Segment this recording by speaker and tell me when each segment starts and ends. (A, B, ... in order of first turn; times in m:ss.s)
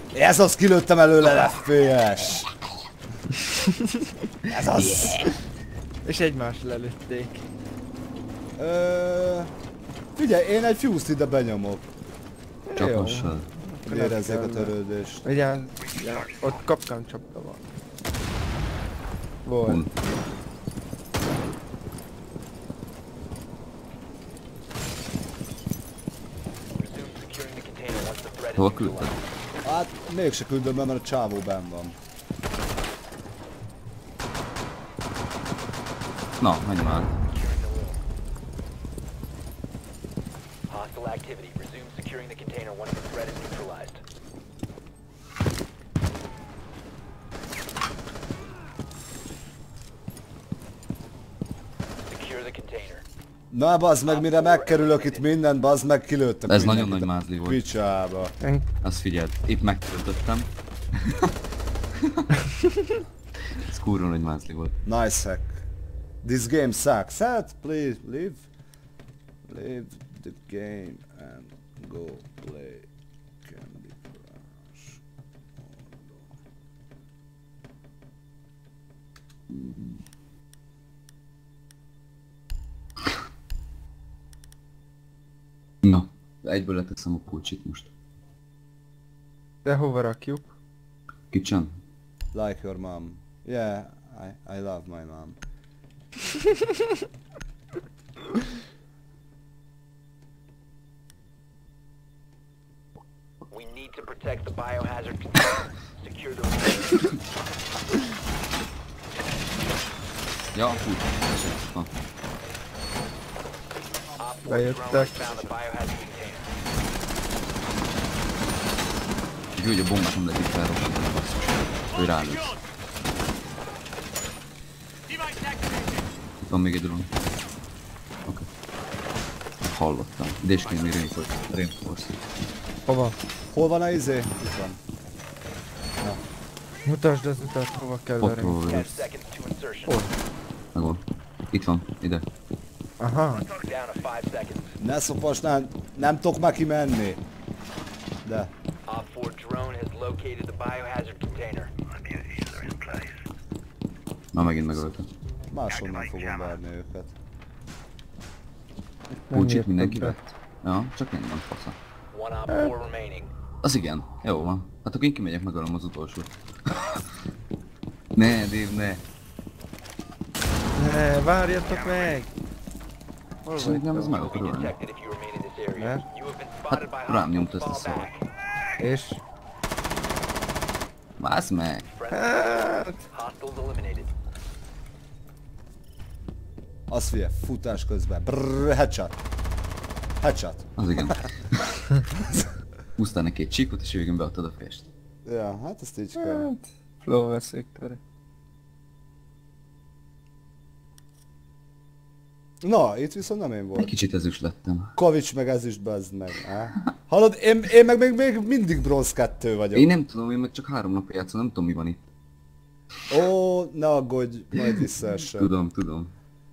0:00.1-0:02.5 A
0:03.6-0:04.1 B
0:04.5-0:05.3 A
0:04.9-0:05.1 C
0:06.0-0:07.4 B
0:08.6-0:09.5 A
0:10.2-0:11.9 A
0:12.7-0:14.7 B
0:12.8-0:13.2 A
0:12.8-0:13.4 C
0:13.9-0:15.3 A
0:15.2-0:17.6 B
0:15.8-0:16.6 D
0:19.4-0:19.8 B
0:26.7-0:29.2 E
0:28.6-0:29.1 C
0:29.6-0:32.0 A
0:36.4-0:37.1 C
0:37.2-0:38.0 E
0:40.7-0:44.0 E
0:52.1-0:53.0 E
0:53.5-0:58.4 A
0:54.1-0:55.3 E
0:56.5-0:57.6 C
0:58.4-0:58.7 B
0:58.8-1:00.5 C
1:03.7-1:04.8 C
1:04.8-1:05.6 A
1:06.2-1:08.4 A
1:09.4-1:12.9 A
1:13.4-1:15.0 A
1:15.6-1:16.3 A
1:19.5-1:19.8 C
1:25.8-1:27.9 C
1:29.6-1:30.5 B
1:31.3-1:31.7 C
1:32.3-1:35.4 A
1:43.5-1:47.1 E
1:50.5-1:51.9 C
1:54.2-1:56.5 E
1:54.4-1:55.2 B
1:59.6-2:02.6 C
2:06.5-2:07.1 C
2:09.6-2:12.2 C
2:12.9-2:13.2 B
2:13.5-2:14.8 A
2:16.8-2:18.6 B
2:18.2-2:19.1 C
2:18.6-2:20.0 E
2:19.9-2:20.1 B
2:20.7-2:22.2 C
2:23.0-2:23.4 B
2:23.4-2:24.7 E
2:24.8-2:27.2 A
2:28.2-2:28.5 A
2:28.9-2:31.7 E
2:31.9-2:33.2 D
2:34.3-2:35.1 C
2:35.5-2:37.2 A
2:35.7-2:36.6 D
2:39.3-2:40.3 B
2:39.3-2:41.8 C
2:42.1-2:43.3 E
2:43.6-2:47.1 C
2:48.2-2:49.0 C
2:50.8-2:52.3 B
2:53.4-2:54.2 B
2:53.6-2:54.8 C
2:54.1-2:58.2 E
2:55.8-2:56.0 B
2:56.7-2:58.2 C
2:58.8-2:59.2 B
3:01.2-3:01.9 C
3:01.9-3:04.1 E
3:02.1-3:03.0 B
3:06.9-3:09.2 A
3:10.2-3:11.2 A
3:10.8-3:11.8 C
3:12.2-3:12.5 A
3:13.0-3:14.9 C
3:15.2-3:16.5 A
3:16.2-3:18.0 B
3:22.6-3:23.9 A
3:23.8-3:24.9 C
3:25.0-3:29.9 A
3:29.7-3:32.0 C
3:33.1-3:35.5 A
3:35.3-3:36.1 C